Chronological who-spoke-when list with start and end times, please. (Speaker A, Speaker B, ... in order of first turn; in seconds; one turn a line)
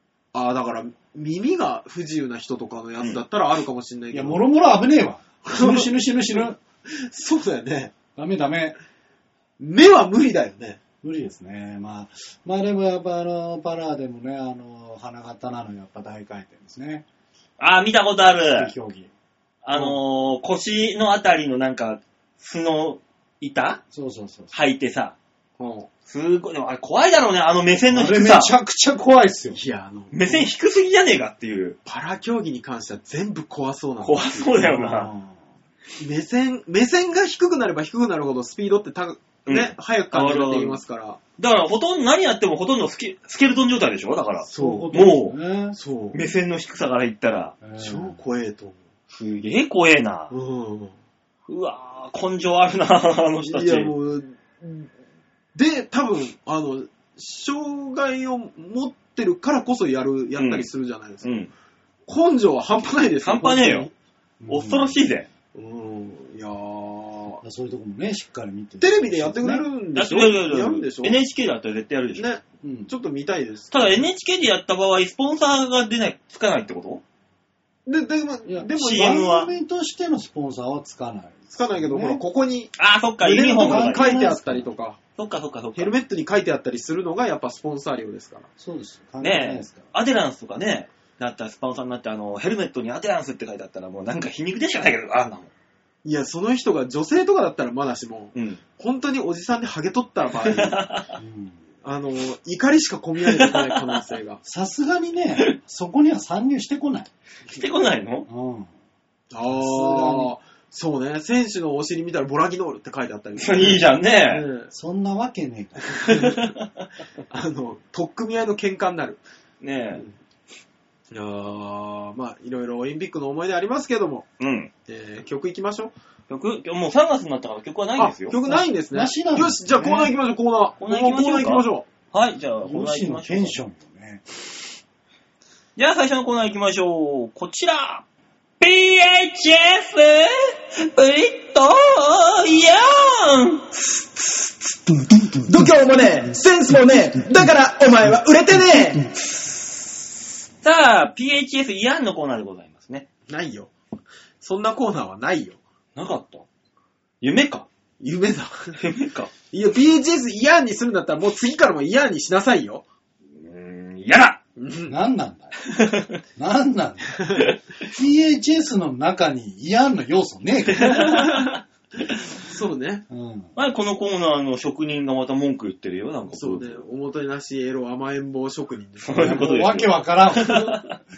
Speaker A: 0.3-4.4
Speaker B: 4.1-6.6
Speaker A: 5.4-7.9
Speaker B: 8.1-8.8
Speaker A: 9.6-10.8
Speaker B: 11.0-17.0
Speaker C: 17.6-18.7
Speaker B: 18.5-19.1
Speaker C: 19.6-23.8
Speaker B: 23.9-24.5
Speaker C: 24.5-25.1
Speaker A: 25.6-25.9
Speaker C: 26.1-28.5
Speaker B: 27.9-29.6
Speaker A: 29.5-30.4
Speaker C: 30.1-31.8
Speaker A: 31.9-34.6
Speaker C: 34.0-35.1
Speaker B: 34.6-35.4
Speaker A: 36.0-41.2
Speaker C: 39.5-40.8
Speaker C: 41.4-45.4
Speaker A: 44.5-44.9
Speaker B: 44.5-45.8
Speaker A: 45.7-46.2
Speaker C: 46.1-47.5
Speaker B: 47.6-48.2
Speaker A: 47.8-48.8
Speaker C: 49.1-50.3
Speaker A: 50.3-51.0
Speaker C: 51.5-53.9
Speaker A: 53.4-54.9
Speaker A: 55.5-61.4
Speaker C: 60.4-60.7
Speaker C: 61.2-61.5
Speaker A: 62.1-63.9
Speaker C: 63.2-63.9
Speaker B: 64.4-65.0
Speaker C: 64.5-65.3
Speaker A: 65.5-67.4
Speaker B: 67.4-69.6
Speaker A: 68.8-71.2
Speaker C: 69.9-72.3
Speaker A: 72.2-74.0
Speaker B: 72.6-72.9
Speaker C: 73.7-77.0
Speaker A: 77.8-79.3
Speaker B: 78.5-82.2
Speaker C: 78.7-79.5
Speaker A: 81.5-85.0
Speaker C: 82.8-84.1
Speaker B: 83.6-84.7
Speaker C: 85.2-85.9
Speaker A: 85.8-88.5
Speaker B: 88.6-89.9
Speaker C: 89.2-95.5
Speaker A: 96.0-100.8
Speaker C: 98.3-98.6
Speaker C: 100.4-101.1
Speaker B: 101.2-101.6
Speaker A: 101.8-104.4
Speaker C: 103.2-104.0
Speaker B: 104.4-107.1
Speaker C: 107.5-108.3
Speaker B: 108.3-108.7
Speaker A: 109.3-114.7
Speaker B: 109.5-110.3
Speaker C: 113.4-114.5
Speaker B: 114.7-116.1
Speaker A: 116.0-116.4
Speaker C: 116.0-116.8
Speaker A: 117.3-119.2
Speaker C: 119.6-120.0
Speaker A: 121.1-124.2
Speaker C: 124.4-124.7
Speaker A: 124.9-125.9
Speaker C: 126.3-128.3
Speaker A: 128.0-131.8
Speaker B: 128.4-130.1
Speaker C: 130.8-133.6
Speaker B: 132.6-134.2
Speaker C: 135.8-138.0
Speaker C: 138.6-143.8
Speaker A: 145.4-149.1
Speaker C: 150.6-153.1
Speaker A: 153.3-153.7
Speaker A: 154.4-155.6
Speaker C: 155.9-156.4
Speaker C: 157.2-157.7
Speaker A: 158.0-158.8
Speaker C: 158.8-159.3
Speaker A: 159.5-162.8
Speaker C: 163.3-164.4
Speaker A: 164.6-164.9
Speaker B: 164.9-165.5
Speaker C: 165.6-166.2
Speaker B: 166.3-167.2
Speaker A: 167.2-167.4
Speaker B: 167.8-171.2
Speaker C: 170.7-172.2
Speaker A: 171.1-171.5
Speaker A: 172.4-173.0
Speaker B: 173.1-173.5
Speaker C: 173.6-176.8
Speaker A: 176.3-179.6
Speaker C: 179.0-181.0
Speaker B: 179.1-180.8